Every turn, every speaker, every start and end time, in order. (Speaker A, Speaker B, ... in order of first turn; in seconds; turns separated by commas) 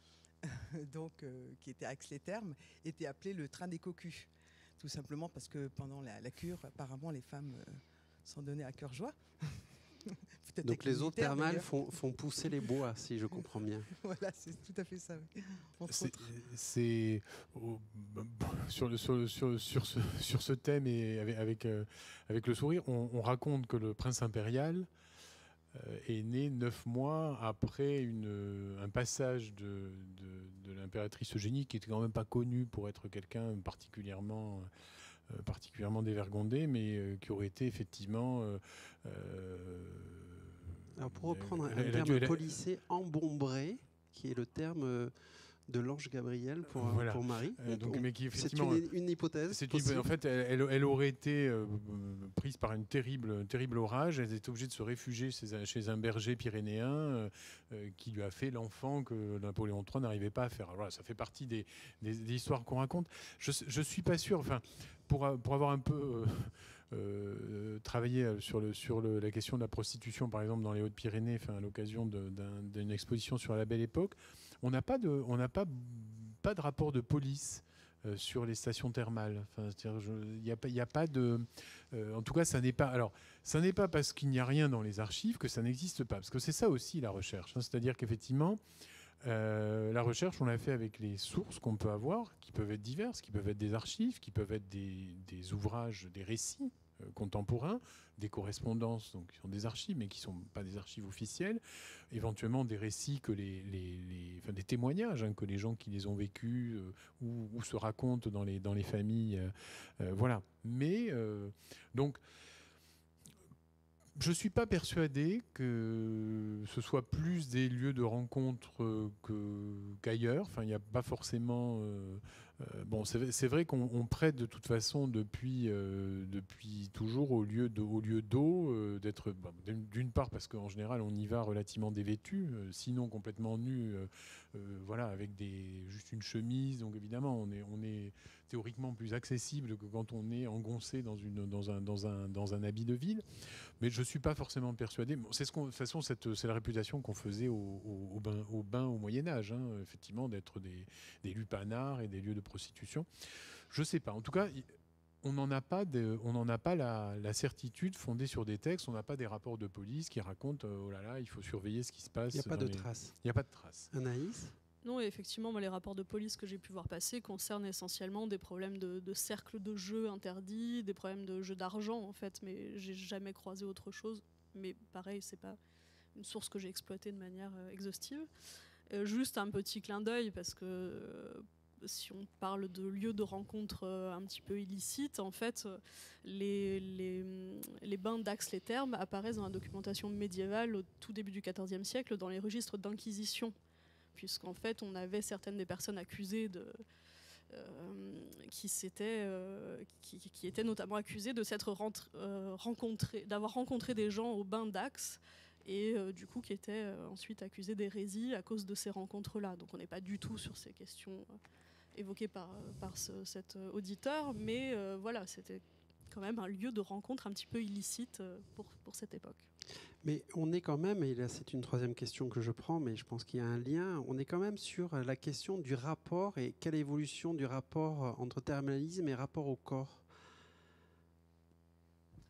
Speaker A: 0.4-11.8, Speaker B: 10.6-13.9, Speaker A: 13.9-16.3, Speaker C: 15.9-24.9, Speaker C: 25.7-34.7, Speaker C: 35.3-42.6, Speaker B: 41.0-45.1, Speaker B: 45.7-50.1, Speaker C: 46.8-48.8, Speaker C: 49.5-88.6, Speaker C: 89.2-112.2, Speaker C: 114.2-143.2, Speaker C: 143.8-153.1, Speaker C: 153.7-154.7, Speaker C: 155.2-163.9, Speaker B: 162.3-163.1, Speaker B: 163.9-164.5, Speaker D: 164.8-175.6, Speaker D: 176.1-178.3, Speaker D: 178.9-193.5, Speaker D: 194.1-196.8, Speaker D: 197.5-211.3, Speaker D: 211.9-219.5, Speaker B: 220.0-230.0